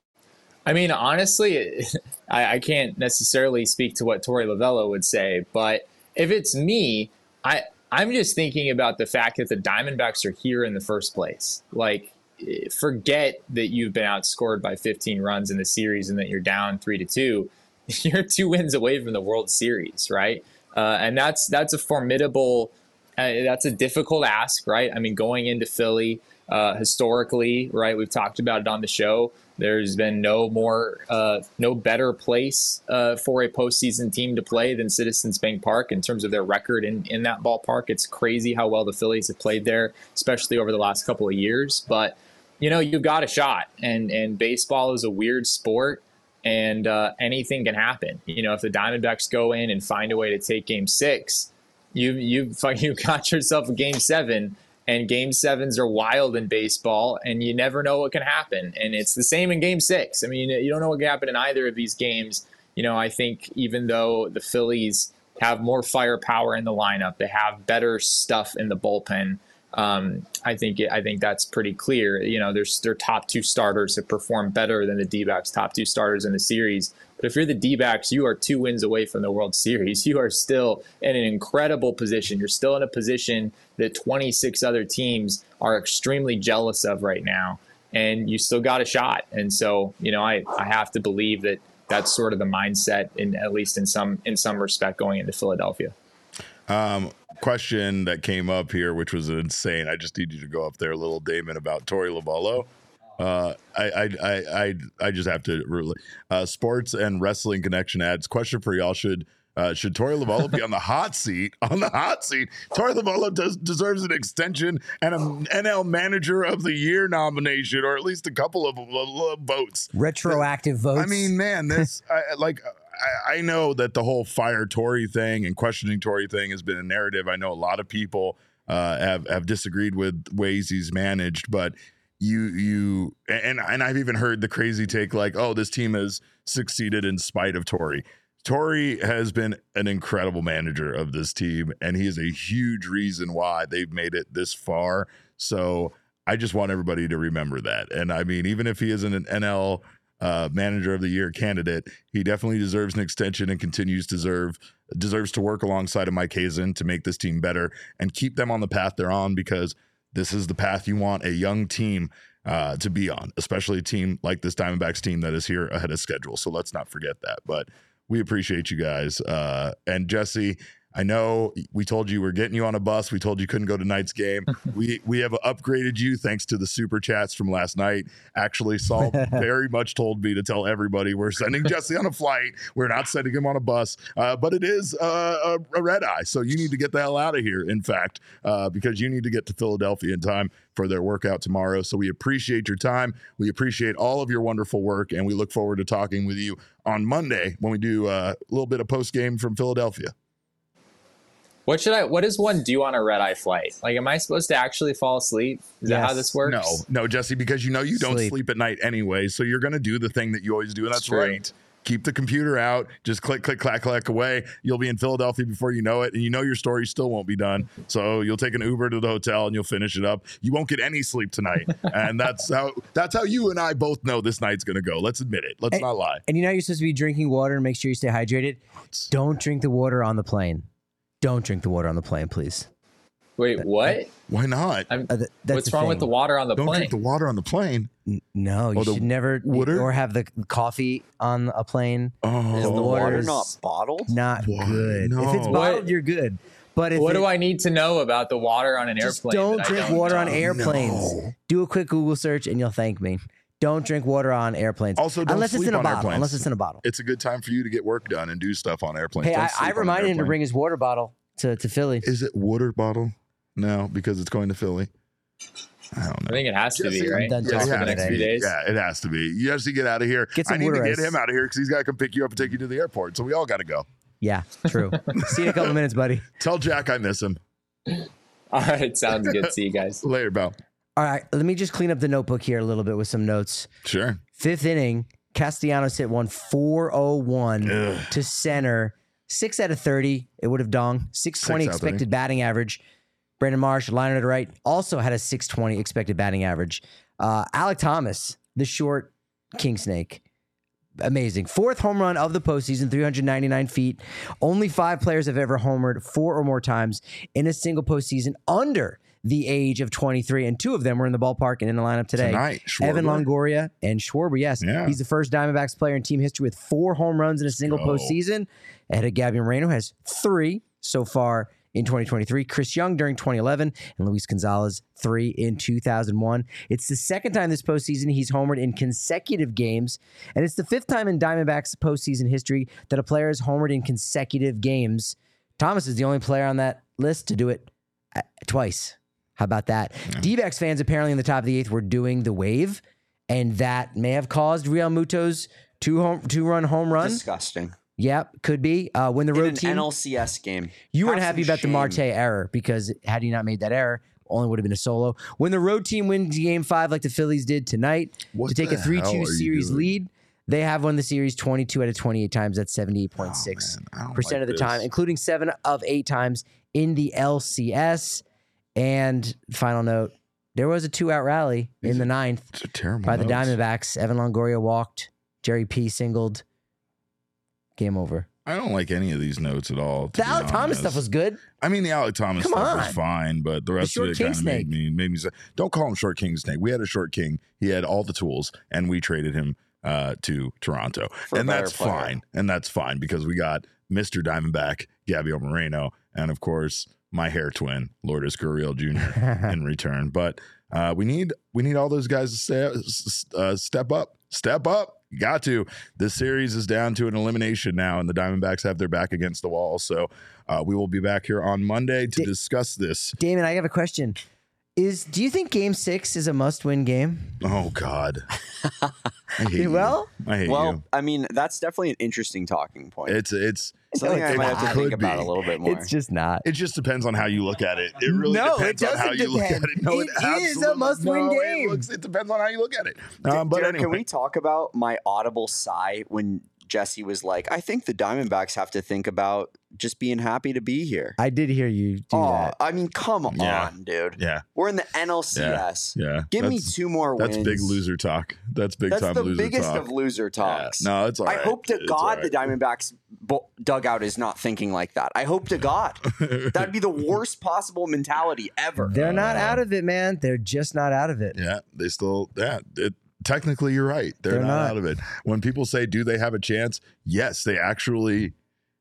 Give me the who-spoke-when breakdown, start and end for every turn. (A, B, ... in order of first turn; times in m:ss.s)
0:00.6-1:35.9 A
1:36.7-2:00.4 B
1:59.9-2:01.9 C
2:00.9-3:20.1 B
3:21.6-3:26.8 A
3:25.8-3:26.3 C
3:26.4-3:46.2 B
3:27.9-3:28.3 C
3:30.9-3:31.4 A
3:45.7-3:50.7 C
3:51.2-3:52.7 C
3:53.4-3:54.1 A
3:54.3-3:54.9 B
3:54.9-3:57.0 A
3:55.1-3:56.1 C
3:56.6-3:57.9 B
3:58.0-4:03.5 C
3:58.7-3:59.9 B
4:02.2-4:03.3 B
4:02.5-4:04.1 D
4:04.1-4:07.2 C
4:04.4-4:05.7 B
4:05.5-4:05.9 A
4:06.9-4:10.5 A
4:09.0-4:16.8 C
4:10.1-4:11.3 B
4:15.0-4:20.4 B
4:19.2-4:22.1 C
4:22.0-4:24.9 B
4:25.9-4:33.9 B
4:26.3-4:28.5 A
4:27.1-4:28.2 C
4:30.4-4:31.2 C
4:34.2-4:36.3 C
4:35.3-4:35.8 B
4:36.4-4:37.4 B
4:37.9-4:40.0 A
4:40.0-4:40.6 B
4:41.0-4:43.7 C
4:43.8-4:44.2 B
4:44.4-4:52.8 C
4:47.6-4:48.1 B
4:51.4-4:52.0 B
4:53.4-5:00.2 C
5:01.0-5:47.2 C
5:12.2-5:13.3 B
5:14.6-5:15.0 B
5:17.6-5:18.2 B
5:47.0-5:47.7 D
5:48.0-5:49.9 C
5:49.3-5:52.0 D
5:50.9-6:08.2 C
5:58.3-5:59.9 B
6:03.2-6:04.9 B
6:08.8-6:12.4 C
6:11.8-6:13.6 B
6:13.0-6:16.4 C
6:17.8-6:18.3 C
6:18.4-6:21.0 B
6:20.2-6:21.4 C
6:21.6-6:53.2 B
6:22.4-6:23.0 C
6:23.8-6:24.7 C
6:31.3-6:32.1 D
6:53.2-6:54.2 C
6:54.8-6:57.4 C
6:57.4-6:58.3 B
6:59.4-7:00.8 B
6:59.5-7:00.1 C
7:00.4-7:03.2 D
7:03.1-7:05.4 B
7:03.9-7:05.9 D
7:03.9-7:04.9 C
7:05.6-7:06.4 C
7:06.4-7:14.0 B
7:08.0-7:11.8 C
7:13.3-7:21.2 D
7:21.2-7:22.5 C
7:22.1-7:27.8 D
7:23.3-7:24.4 B
7:25.3-7:29.8 B
7:28.9-7:39.0 D
7:30.4-7:32.5 B
7:36.1-7:36.7 B
7:38.8-7:41.4 C
7:38.9-7:39.6 B
7:41.3-7:48.3 B
7:44.3-7:44.7 C